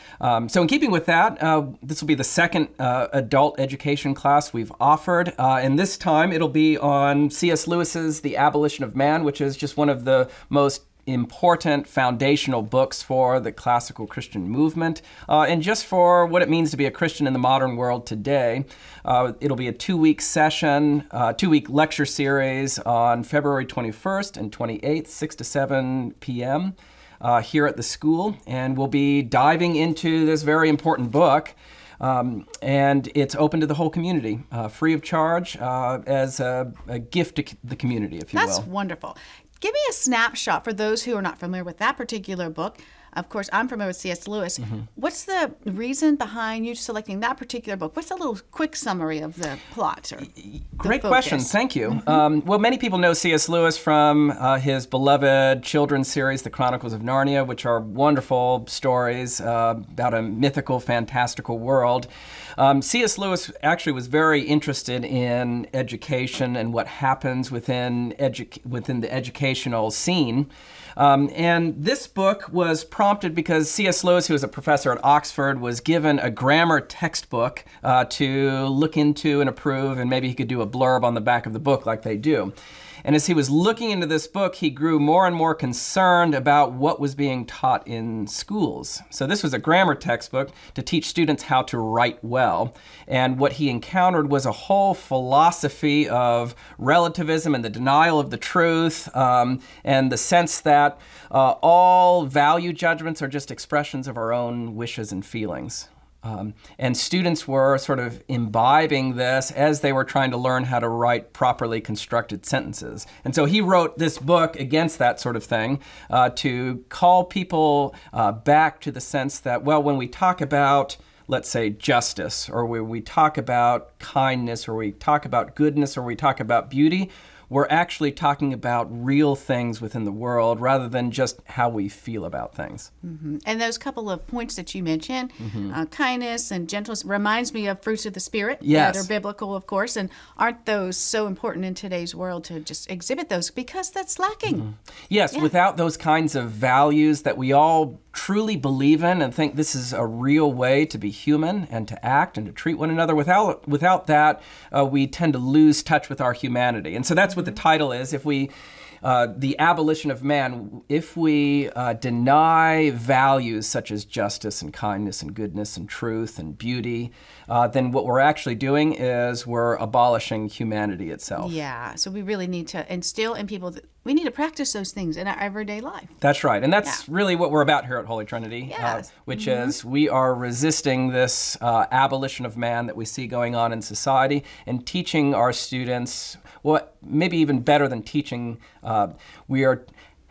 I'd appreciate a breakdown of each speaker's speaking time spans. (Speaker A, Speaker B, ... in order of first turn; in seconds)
Speaker A: 0.2-38.7, 50.4-82.5, 83.0-132.9, 135.4-135.7, 138.6-139.1, 145.1-158.5, 159.0-171.6, 176.2-189.8
Speaker B: 38.3-52.0, 133.0-144.7, 171.4-176.1, 178.7-179.8